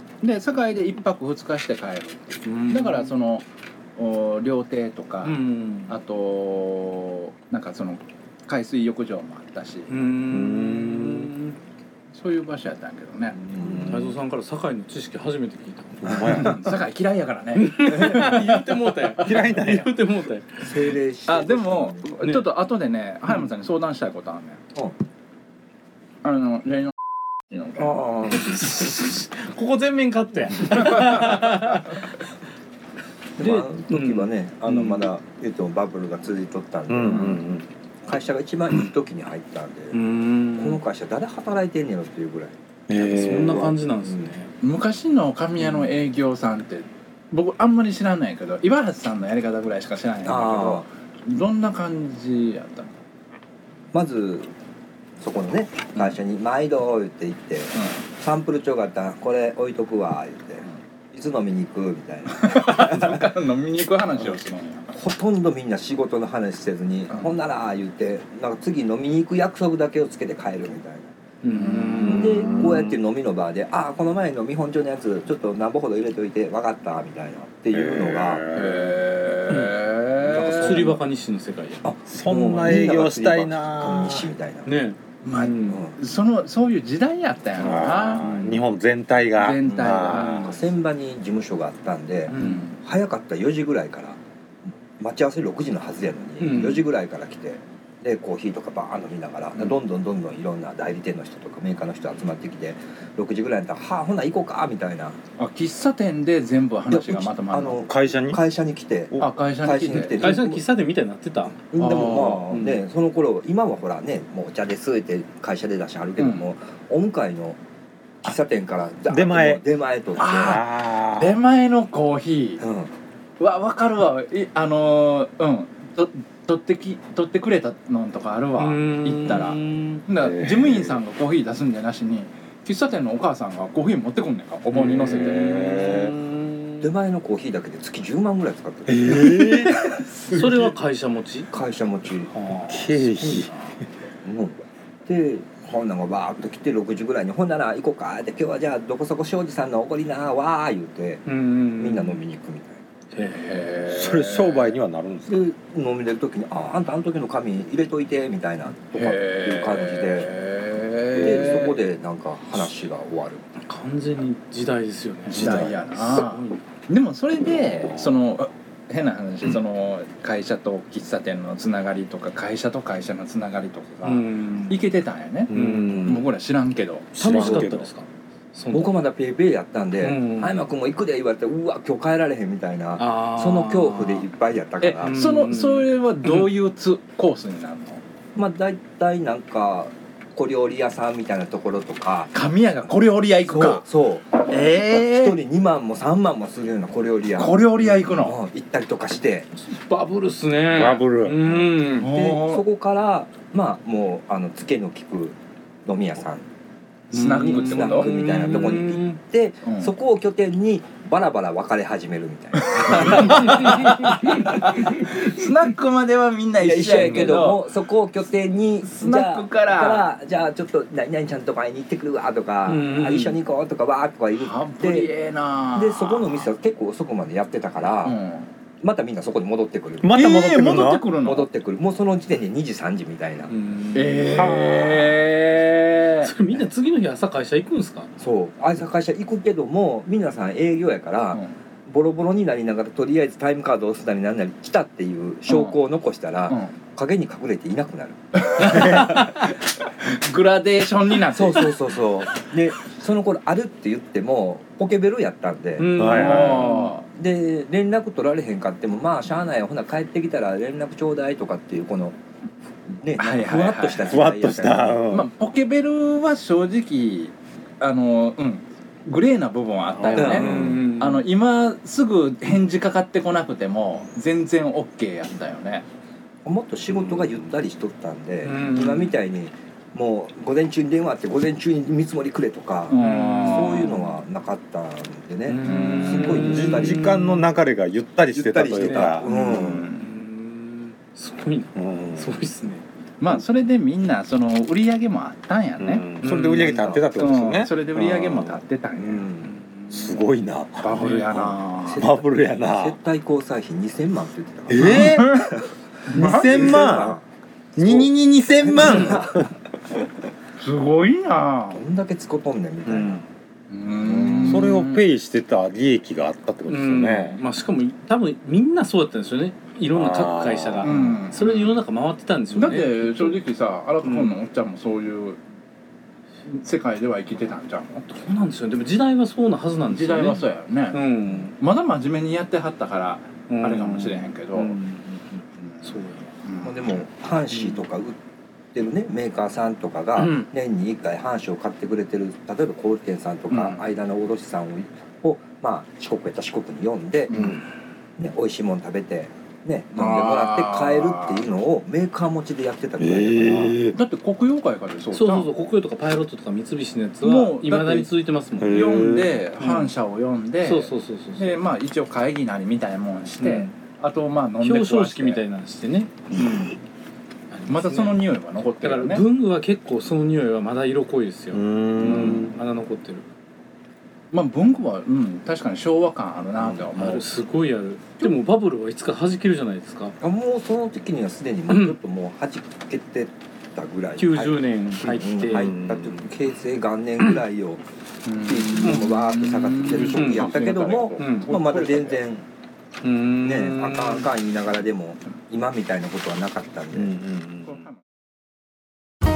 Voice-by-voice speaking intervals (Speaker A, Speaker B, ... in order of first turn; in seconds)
Speaker A: 0.2-10.2, 12.1-13.4, 16.1-18.6, 21.3-24.6, 26.2-26.9, 27.5-28.6, 30.6-31.9, 44.6-53.0, 62.4-64.9, 67.1-67.3, 71.6-72.3, 78.5-80.9, 85.2-88.2, 89.4-90.5, 92.3-92.7, 105.4-107.8, 109.2-110.2, 111.8-112.5, 116.2-116.4, 120.2-122.6, 123.4-135.8, 153.2-154.7, 158.9-161.8, 165.2-175.5, 176.1-177.2, 184.8-188.0, 192.3-193.9, 194.4-195.4, 197.4-198.4, 200.8-201.0, 201.9-202.6, 207.1-208.8, 209.6-209.9, 212.6-217.7, 218.8-220.1, 224.4-226.5, 228.0-228.5, 230.1-231.5, 233.9-236.3, 245.5-245.8, 246.5-246.7, 248.4-251.7, 255.9-257.1, 263.2-264.2, 265.1-275.9, 282.9-283.9, 285.6-286.6, 289.2-290.1, 293.2-296.1, 296.6-299.3, 300.8-302.0, 304.8-305.5, 306.1-306.9, 310.6-311.8, 313.7-315.0, 320.8-321.8, 322.5-325.4, 326.4-328.1, 329.9-334.8, 335.6-337.1, 343.5-343.8, 349.9-351.4, 353.9-355.5, 357.2-358.1, 358.7-365.4, 367.7-369.3, 374.3-377.3, 388.2-392.2, 397.6-398.0
Speaker B: 2.4-3.1, 5.2-5.9, 9.9-11.6, 13.8-16.3, 17.6-20.9, 27.9-32.0, 33.4-35.1, 39.9-40.8, 43.0-44.5, 71.4-72.8, 80.4-81.8, 84.6-85.8, 90.0-90.6, 92.3-92.7, 96.4-96.9, 110.0-112.8, 128.6-130.0, 135.0-136.9, 140.3-141.5, 142.3-143.5, 151.2-152.2, 153.1-153.8, 163.7-166.6, 174.0-174.8, 175.5-176.2, 177.2-178.9, 180.0-180.7, 183.0-184.3, 185.0-186.5, 199.6-202.1, 207.1-209.2, 222.7-223.4, 233.5-234.6, 236.2-238.1, 255.8-256.9, 270.1-271.2, 278.4-279.2, 283.0-284.0, 285.4-287.5, 288.8-292.8, 296.2-297.1, 299.4-300.2, 316.7-323.4, 324.0-324.3, 328.1-331.5, 333.5-336.3, 337.5-337.8, 340.2-340.5, 355.1-359.0, 359.6-359.9, 360.6-361.6, 363.4-363.7, 364.6-366.8, 367.5-368.3, 368.8-373.2, 376.7-380.2, 381.7-382.0, 384.2-385.8, 388.8-389.2, 389.9-391.5, 393.0-394.3
Speaker C: 10.2-11.3, 13.6-14.2, 16.0-16.8, 19.2-20.1, 36.9-37.7, 42.9-43.8, 72.1-73.0, 77.7-79.0, 82.1-84.3, 87.6-90.4, 107.8-108.4, 119.1-119.6, 120.2-121.4, 130.2-131.0, 134.7-136.1, 138.9-140.7, 142.7-143.5, 153.9-155.4, 161.2-161.4, 165.4-165.7, 175.5-176.0, 177.1-177.9, 200.7-201.5, 230.0-231.0, 234.2-235.2, 255.9-256.7, 264.0-265.3, 269.9-270.7, 286.5-289.3, 291.7-292.5, 295.8-298.6, 299.9-303.0, 304.7-305.6, 306.1-307.2, 307.8-309.5, 312.9-313.2, 314.2-317.4, 319.9-321.2, 347.3-347.6, 353.0-353.9, 358.6-359.4, 371.5-372.6, 385.5-386.3, 391.6-392.0, 396.9-397.9
Speaker D: 13.4-13.9, 20.6-22.1, 33.4-37.5, 38.0-40.0, 40.5-42.6, 43.4-44.3, 50.2-50.9, 53.9-54.5, 55.2-63.3, 64.9-71.1, 72.1-78.5, 80.3-81.0, 81.8-84.8, 85.7-86.0, 90.2-94.2, 95.0-105.2, 106.9-110.7, 111.7-117.6, 118.2-120.6, 122.6-122.9, 136.8-139.7, 141.5-142.3, 144.2-151.2, 151.8-152.8, 155.3-160.3, 161.2-163.5, 175.8-176.3, 177.3-177.7, 178.7-185.2, 188.3-192.3, 192.9-199.5, 202.0-206.4, 207.2-215.5, 216.6-225.1, 225.7-228.2, 228.8-230.2, 231.2-233.5, 238.2-249.3, 251.2-262.2, 262.9-265.0, 270.2-270.9, 276.4-287.0, 288.3-289.9, 298.9-299.6, 301.9-309.5, 311.7-313.3, 314.0-314.7, 336.6-338.2, 338.7-347.6, 348.2-353.8, 380.2-387.8, 388.4-392.4, 393.4-397.1